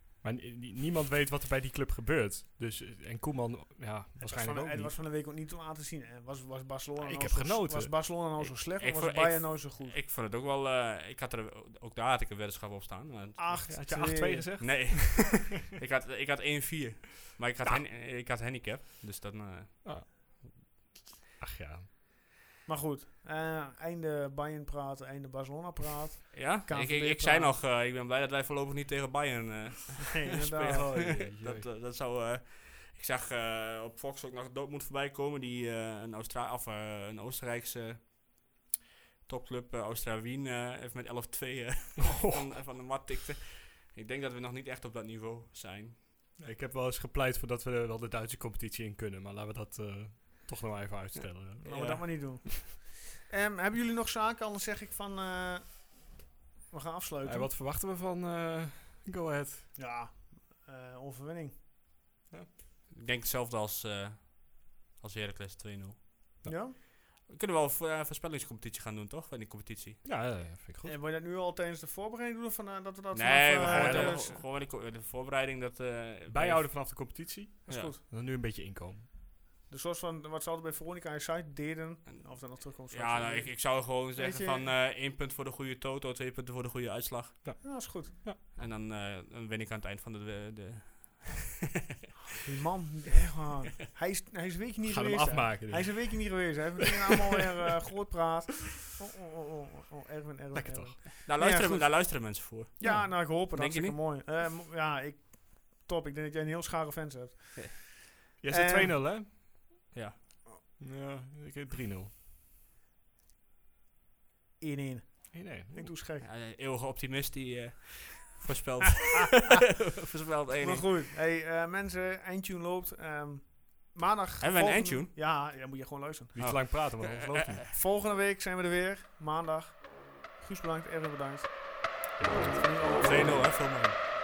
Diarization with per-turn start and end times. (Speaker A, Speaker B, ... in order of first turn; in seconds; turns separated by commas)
Speaker A: 0.2-5.0, Speaker B: 4.2-10.0, Speaker A: 7.0-8.0, Speaker C: 8.4-13.8, Speaker B: 13.4-14.6, Speaker A: 13.7-15.4, Speaker C: 14.6-20.2, Speaker A: 19.8-20.6, Speaker A: 21.4-21.9, Speaker B: 22.7-27.6, Speaker C: 26.3-38.6, Speaker B: 30.1-31.1, Speaker A: 30.6-31.7, Speaker C: 39.2-46.0, Speaker A: 42.1-42.4, Speaker A: 46.4-52.5, Speaker B: 51.6-56.1, Speaker B: 56.7-57.5, Speaker A: 57.2-59.7, Speaker B: 59.8-61.6, Speaker C: 62.9-66.4, Speaker B: 66.5-66.8, Speaker C: 67.2-70.0, Speaker A: 70.0-70.9, Speaker B: 70.8-74.4, Speaker C: 73.1-77.9, Speaker A: 73.6-74.3, Speaker A: 76.3-79.1, Speaker B: 77.7-78.0, Speaker B: 79.7-84.7, Speaker C: 82.2-87.5, Speaker A: 87.4-88.4, Speaker B: 87.6-88.1, Speaker C: 88.6-91.7, Speaker B: 92.3-107.9, Speaker A: 94.8-96.6, Speaker A: 100.5-101.1, Speaker C: 101.2-104.0, Speaker A: 102.8-103.2, Speaker A: 108.4-109.3, Speaker B: 108.5-109.1, Speaker C: 109.9-110.2, Speaker A: 110.8-112.1, Speaker B: 114.6-116.3, Speaker A: 115.3-115.9, Speaker C: 116.2-121.0, Speaker B: 120.6-126.4, Speaker C: 124.4-125.1, Speaker A: 126.3-127.7, Speaker C: 126.4-127.6, Speaker B: 127.7-133.9, Speaker A: 132.2-132.8, Speaker C: 133.0-134.0